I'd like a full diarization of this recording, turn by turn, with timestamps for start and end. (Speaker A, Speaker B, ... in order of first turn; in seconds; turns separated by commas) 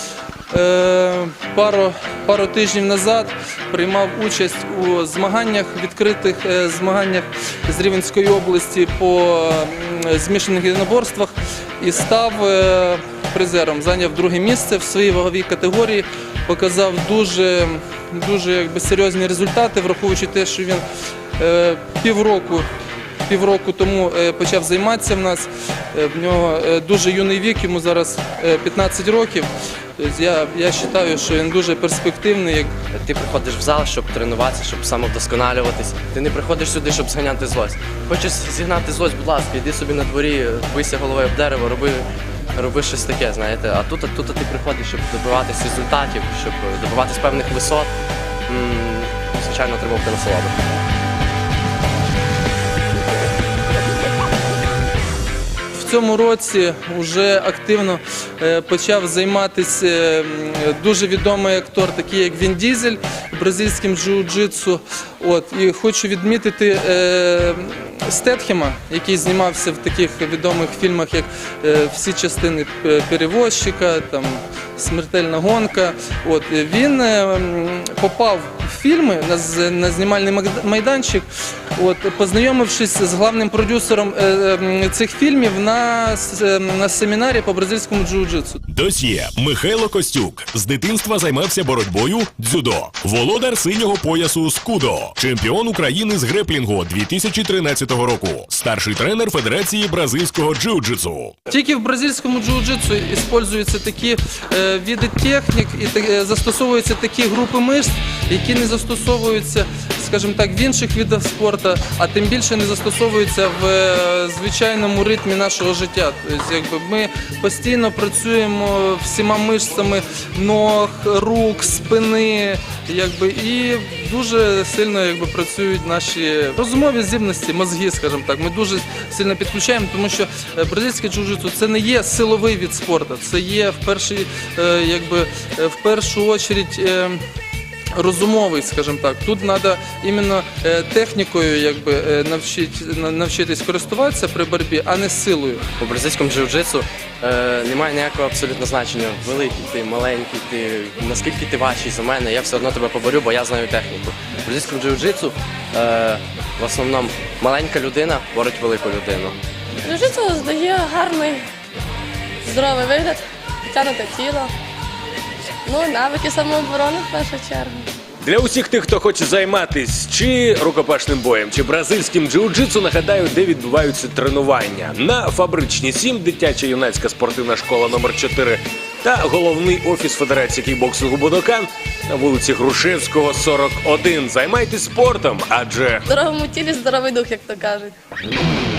Speaker A: 0.5-20.8, Speaker A: 21.4-22.7, Speaker A: 23.3-32.7, Speaker B: 32.9-47.9, Speaker B: 48.5-50.6, Speaker A: 55.7-88.6, Speaker C: 88.7-101.3, Speaker A: 101.5-137.2, Speaker A: 137.9-145.7, Speaker B: 145.8-159.4, Speaker D: 159.8-161.4, Speaker D: 162.4-164.5, Speaker D: 165.7-167.8, Speaker E: 168.2-186.0, Speaker D: 186.1-187.9